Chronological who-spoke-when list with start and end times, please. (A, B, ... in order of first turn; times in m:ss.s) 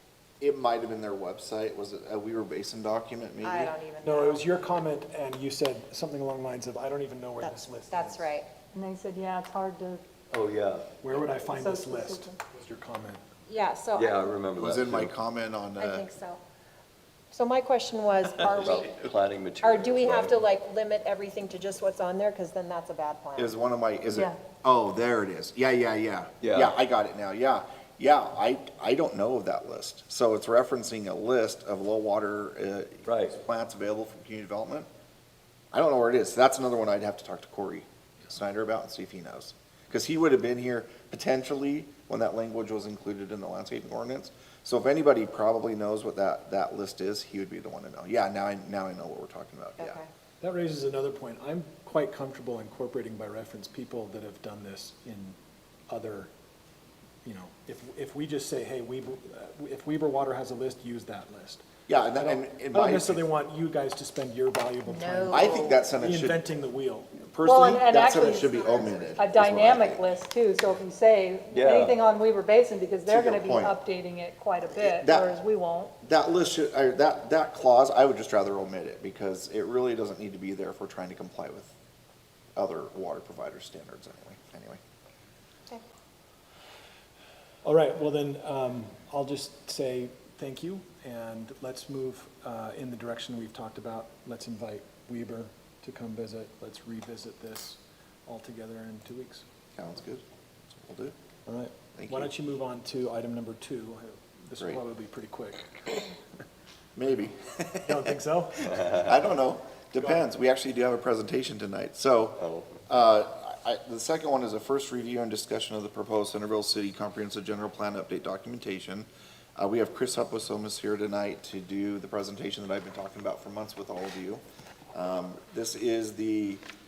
0:00.4-0:03.8 A
0:03.4-0:04.5 B
0:04.0-0:08.3 C
0:07.4-0:08.5 B
0:08.7-0:10.0 D
0:10.3-0:10.9 E
0:11.0-0:13.2 C
0:11.3-0:12.3 D
0:13.5-0:14.4 B
0:14.0-0:15.1 E
0:14.6-0:16.1 A
0:15.8-0:16.4 B
0:17.3-0:19.0 B
0:18.4-0:20.4 E
0:19.6-0:23.6 B
0:23.4-0:34.9 A
0:24.1-0:24.4 D
0:26.4-0:26.8 E
0:33.1-0:33.4 E
0:35.7-0:50.0 A
0:49.8-0:50.1 B
0:50.4-0:55.4 C
0:55.9-0:56.3 C
0:57.2-1:07.1 C
1:01.9-1:03.2 A
1:04.9-1:05.8 B
1:05.3-1:06.5 A
1:07.1-1:10.1 A
1:07.4-1:15.9 D
1:08.8-1:09.2 B
1:11.5-1:12.0 E
1:13.1-1:13.8 A
1:14.7-1:15.4 A
1:16.0-1:21.7 A
1:22.6-1:24.8 A
1:27.6-1:39.4 C
1:39.8-1:41.2 A
1:41.5-1:46.1 C
1:42.0-1:42.3 A
1:47.0-1:48.1 A
1:47.8-1:48.9 C
1:48.8-2:06.6 A
1:50.0-1:50.2 C
1:52.4-1:52.8 E